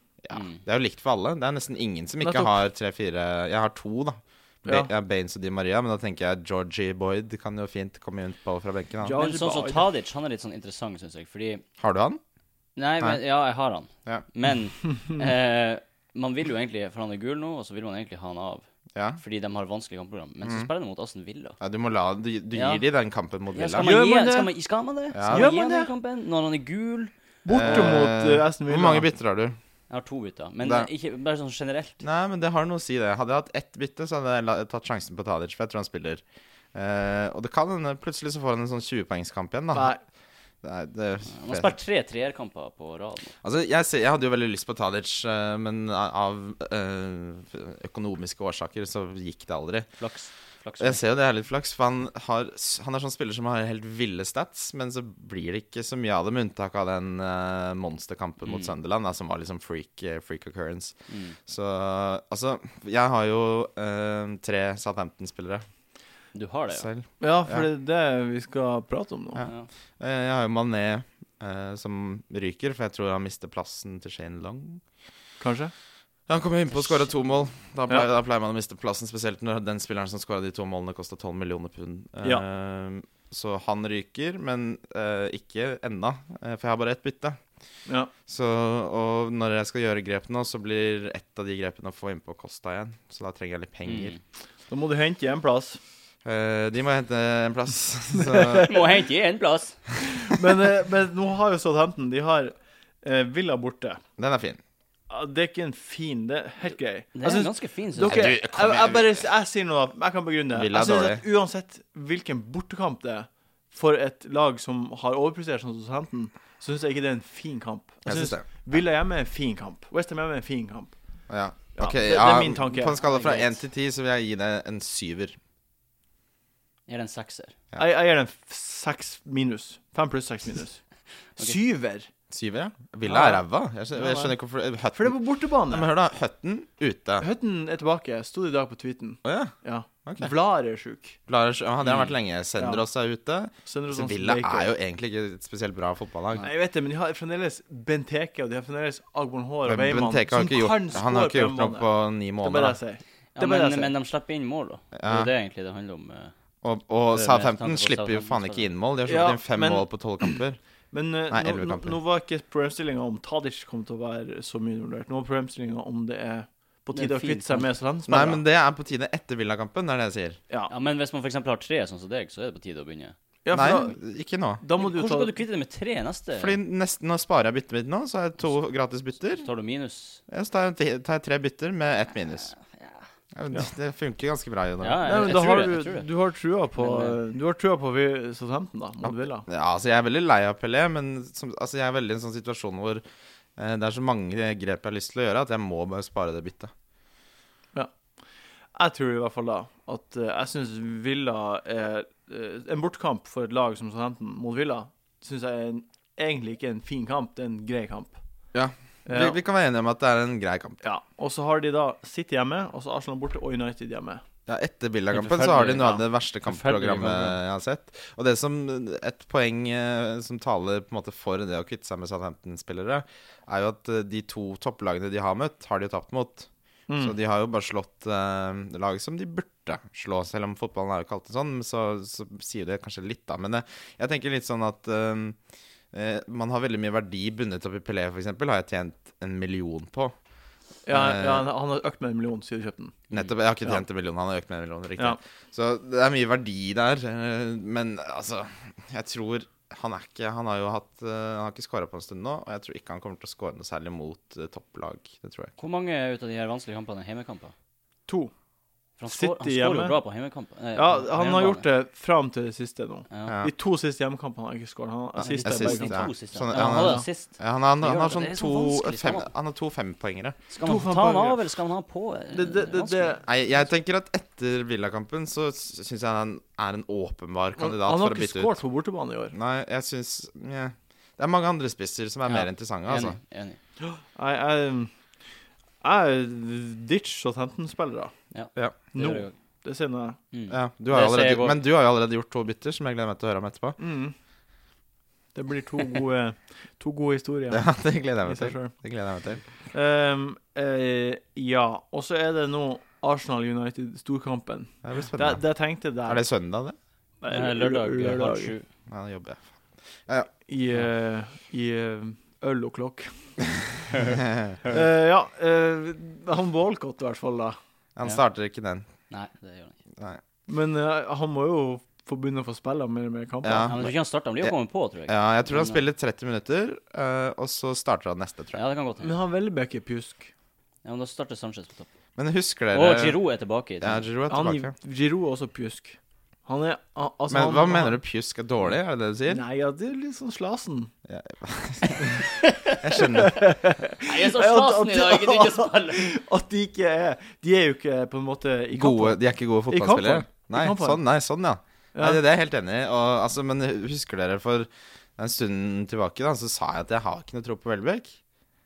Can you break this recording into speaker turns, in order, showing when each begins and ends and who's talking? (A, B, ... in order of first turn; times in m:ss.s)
0:00.2-0:09.2 A
0:00.3-0:00.6 B
0:02.2-0:02.6 C
0:04.6-0:04.9 C
0:09.0-0:09.9 C
0:09.2-0:11.6 B
0:11.8-0:12.2 A
0:12.8-0:18.7 B
0:19.0-0:19.2 A
0:19.2-0:21.6 B
0:20.4-0:20.7 A
0:21.6-0:23.9 A
0:22.5-0:22.8 B
0:23.5-0:28.0 B
0:23.8-0:24.5 C
0:25.1-0:25.5 A
0:25.2-0:25.9 C
0:27.4-0:29.1 C
0:27.5-0:29.6 A
0:29.9-0:32.0 B
0:30.6-0:30.9 A
0:32.0-0:36.2 A
0:36.7-0:39.9 A
0:39.7-0:40.0 C
0:40.6-0:41.7 A
0:41.3-0:43.3 B
0:43.4-0:49.9 A
0:50.0-0:51.0 B
0:50.8-1:01.0 A
0:58.4-0:58.7 B
1:01.1-1:01.4 B
1:01.5-1:05.6 A
1:06.3-1:06.9 B
1:06.7-1:07.7 A
1:07.2-1:09.4 C
1:09.4-1:14.8 A
1:09.4-1:09.7 B
1:15.4-1:15.7 C
1:16.3-1:27.4 A
1:16.7-1:17.1 B
1:28.3-1:34.2 A
1:33.9-1:34.2 B
1:34.7-1:35.8 C
1:36.2-1:38.8 A
1:38.2-1:38.7 C
1:38.6-1:39.8 B
1:40.0-1:44.0 C
1:44.2-1:44.6 A
1:45.1-2:00.9 C
1:47.2-1:48.4 B
1:48.0-1:49.2 A
1:50.5-1:51.2 A
1:58.1-1:58.4 A
2:01.3-2:05.4 A
2:01.8-2:03.6 C
2:06.9-2:07.6 B
2:07.8-2:10.8 C
2:11.4-2:12.1 C
2:12.3-2:15.2 A
2:13.1-2:14.4 C
2:14.9-2:15.9 C
2:15.7-2:17.3 A
2:17.2-2:21.2 C
2:19.2-2:19.5 A
2:20.1-2:20.3 A
2:21.3-2:26.5 A
2:21.8-2:22.1 B
2:22.6-2:22.8 C
2:23.7-2:24.7 C
2:26.4-2:31.9 C
2:29.6-2:32.8 A
2:32.4-2:33.9 C
2:33.4-2:36.3 B
2:35.0-2:35.3 A
2:36.6-2:40.6 A
2:37.1-2:38.7 B
2:39.1-2:40.4 C
2:40.9-2:48.4 C
2:41.3-2:42.0 A
2:46.9-2:47.7 B
2:48.1-2:50.4 A
2:50.7-2:53.2 B
2:53.4-2:54.0 C
2:53.5-2:54.6 A
2:54.6-2:55.3 C
2:54.8-2:56.6 B
2:56.4-2:59.5 A
2:59.4-3:00.2 B
3:00.3-3:02.5 A
3:02.5-3:03.0 B
3:03.3-3:05.3 A
3:04.8-3:06.1 B
3:05.0-3:09.5 C
3:06.8-3:07.2 B
3:09.0-3:13.0 A
3:13.6-3:16.7 A
3:18.8-3:28.2 C
3:28.5-3:30.8 A
3:29.1-3:29.4 C
3:30.8-3:34.2 C
3:34.5-3:55.4 A
3:35.1-3:37.4 B
3:46.9-3:47.2 C
3:55.9-4:00.2 A
4:00.9-4:03.0 C
4:00.9-4:01.5 A
4:03.1-4:15.6 A
4:15.6-4:17.5 B
4:18.1-4:18.3 C
4:19.0-4:21.6 B
4:19.1-4:20.0 C
4:20.8-4:27.1 C
4:23.3-4:23.5 A
4:25.2-4:30.4 A
4:25.2-4:29.3 B
4:30.5-4:33.2 B
4:30.6-4:31.4 C
4:32.3-4:33.2 C
4:33.2-4:38.6 A
4:37.6-4:39.4 C
4:39.3-4:43.2 A
4:42.3-4:43.6 B
4:43.9-4:44.9 C
4:45.8-4:48.1 C
4:48.3-4:49.3 B
4:48.9-4:50.2 C
4:50.3-4:51.6 B
4:50.5-4:53.8 A
4:53.8-4:54.2 C
4:55.4-4:57.7 C
4:57.5-4:59.4 A
4:58.2-4:58.7 C
4:59.7-5:06.3 C
5:04.8-5:05.4 A
5:06.0-5:06.8 A
5:07.2-5:08.6 C
5:07.3-5:08.7 B
5:08.9-5:09.5 A
5:10.5-5:17.6 C
5:13.9-5:14.8 B
5:18.0-5:18.9 A
5:19.1-5:19.8 B
5:20.5-5:23.8 C
5:23.4-5:24.5 A
5:23.6-5:25.8 B
5:25.1-5:28.6 A
5:28.5-5:29.2 B
5:29.0-5:30.3 C
5:30.8-5:31.9 B
5:32.2-5:33.2 A
5:32.7-5:34.0 B
5:33.8-5:34.7 A
5:34.3-5:38.0 C
5:37.3-5:39.4 A
5:39.3-5:40.9 C
5:41.1-5:42.3 A
5:42.2-5:43.1 B
5:42.8-5:43.4 A
5:43.0-5:51.0 C
5:44.0-5:46.2 B
5:48.8-5:58.2 A
5:52.0-5:52.2 C